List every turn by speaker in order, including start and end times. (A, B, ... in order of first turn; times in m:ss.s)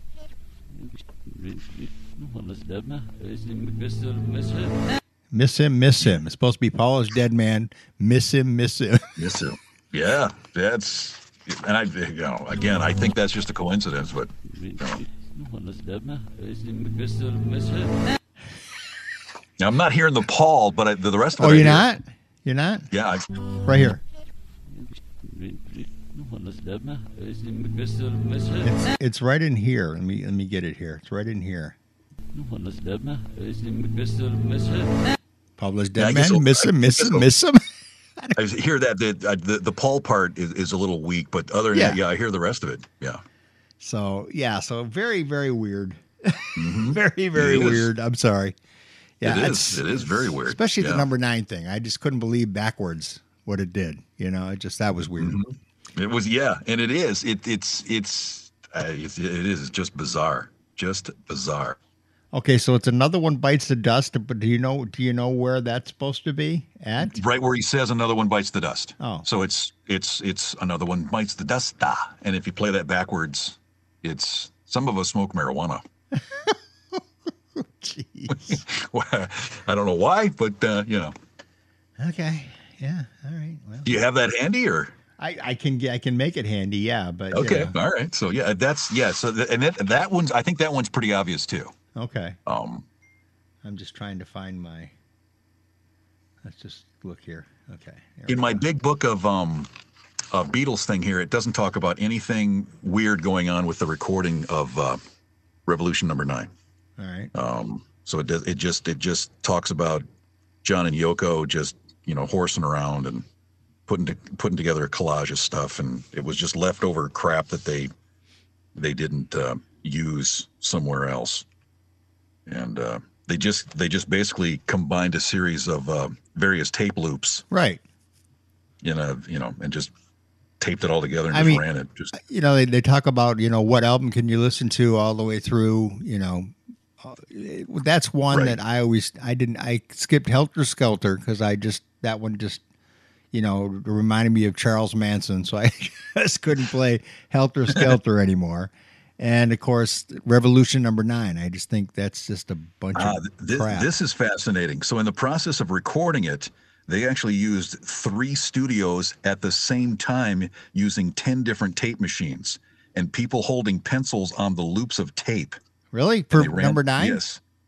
0:00.7-0:04.9 A
0:05.3-0:09.2 B
0:09.2-0:15.0 C
0:14.5-0:18.1 A
0:19.6-0:21.8 C
0:21.4-0:22.9 B
0:22.9-0:23.3 C
0:23.6-0:24.0 B
0:24.7-0:28.8 A
0:28.6-0:31.8 B
0:32.3-0:35.1 A
0:35.6-0:37.6 B
0:36.0-0:37.3 C
0:38.4-0:43.2 C
0:41.7-0:42.0 B
0:43.8-0:48.6 B
0:46.6-0:47.9 C
0:49.2-0:55.4 B
0:49.2-0:51.0 C
0:55.2-1:01.8 C
1:02.3-1:07.2 B
1:07.0-1:15.8 C
1:09.0-1:09.2 B
1:16.1-1:17.0 B
1:17.5-1:18.6 B
1:18.3-1:21.1 C
1:22.0-1:24.0 B
1:23.8-1:25.0 C
1:25.2-1:27.8 B
1:27.3-1:31.7 C
1:32.0-1:32.4 B
1:32.5-1:32.9 C
1:33.6-1:34.9 B
1:36.4-1:38.6 B
1:38.3-1:39.7 C
1:40.3-1:45.0 C
1:45.7-1:46.5 C
1:47.0-1:47.3 B
1:47.3-1:50.0 C
1:50.6-1:53.2 C
1:53.9-1:57.9 C
1:58.8-2:01.4 C
2:02.5-2:07.4 C
2:07.5-2:07.8 B
2:08.8-2:09.9 C
2:10.6-2:12.1 C
2:11.3-2:22.6 B
2:18.3-2:18.6 C
2:23.3-2:33.9 B
2:33.0-2:45.6 C
2:45.9-2:47.2 B
2:46.3-2:47.4 C